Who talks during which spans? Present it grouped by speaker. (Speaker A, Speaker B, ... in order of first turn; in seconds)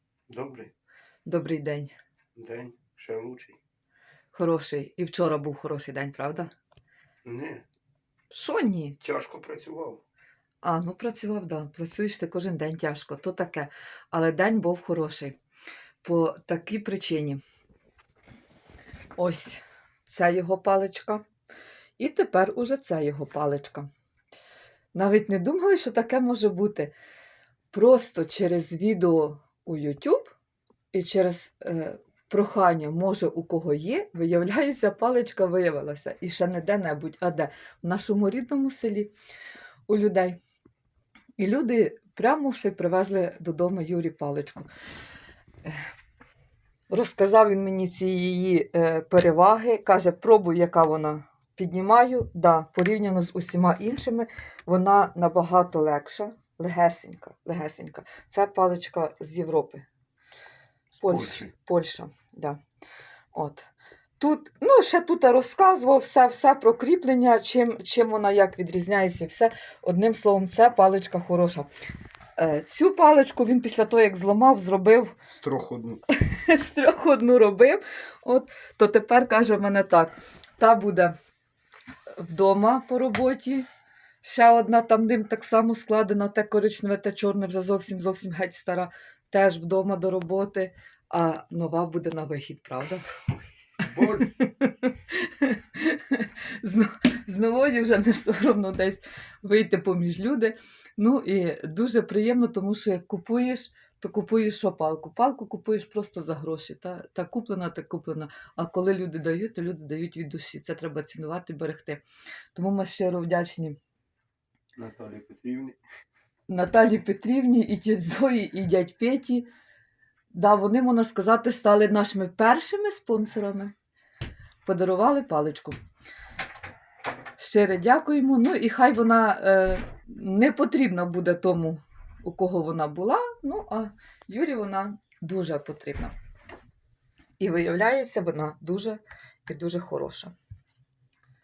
Speaker A: 0.3-0.7, 2.4-3.6, 7.2-7.7, 9.0-10.0, 61.0-61.5, 75.4-76.0, 93.8-94.3, 114.8-115.8
Speaker B: 1.3-1.9, 4.3-6.5, 8.3-9.0, 10.6-15.4, 16.0-17.4, 19.2-21.2, 22.0-23.9, 24.9-26.9, 27.7-30.3, 30.9-39.1, 39.9-40.4, 41.4-44.7, 46.9-59.9, 61.0-62.6, 63.3-71.7, 72.4-75.2, 76.2-81.1, 82.2-83.7, 84.2-93.0, 94.2-112.0, 112.5-113.8, 116.5-119.5, 120.3-123.7, 124.6-125.8, 127.4-136.1, 137.4-140.3